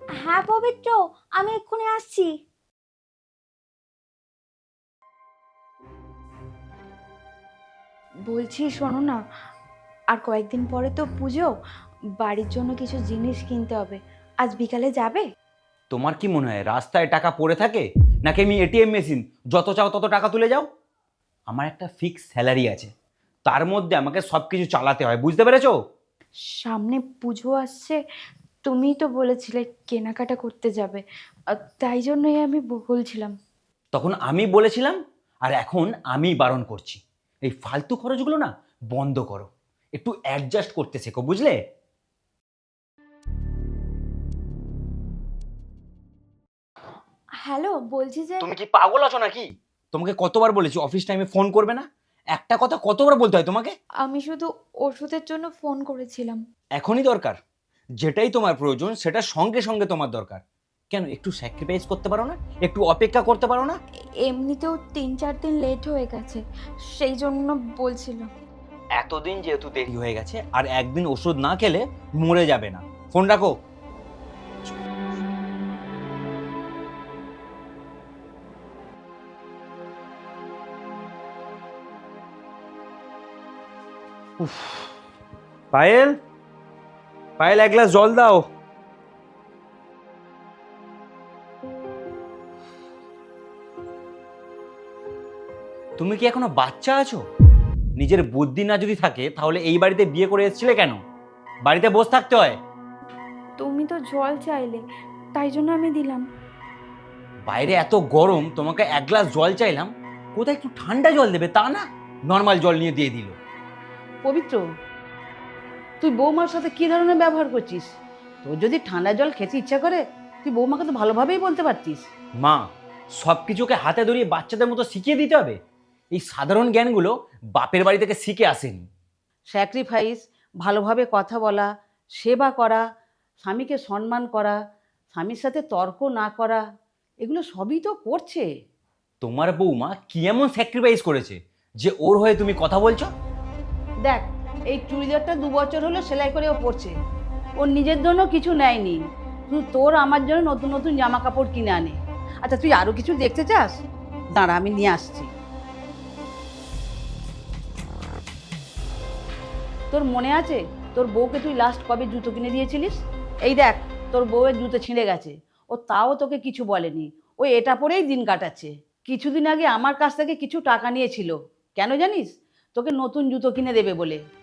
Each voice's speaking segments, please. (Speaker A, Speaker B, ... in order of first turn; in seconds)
Speaker A: 0.2-2.4, 8.3-9.2, 10.1-11.5, 12.2-15.2, 26.6-28.0, 28.6-31.0, 31.7-33.3, 47.4-48.5, 54.0-56.4, 64.2-66.4, 66.9-68.3, 103.6-104.8, 105.3-106.2
Speaker B: 15.9-20.7, 21.5-22.9, 23.4-25.7, 33.9-41.6, 48.4-53.7, 56.8-57.4, 58.0-63.8, 69.0-73.5, 84.4-84.9, 85.7-86.2, 87.4-88.4, 96.0-97.2, 98.0-101.0, 101.6-102.6, 107.5-113.3, 122.4-122.6, 123.2-125.6, 126.1-128.8, 139.2-143.1
Speaker C: 114.2-114.6, 116.0-122.1, 129.5-132.8, 133.4-134.6, 135.1-136.6, 137.2-138.5, 144.0-146.9, 147.6-153.8, 154.3-155.3, 159.9-174.2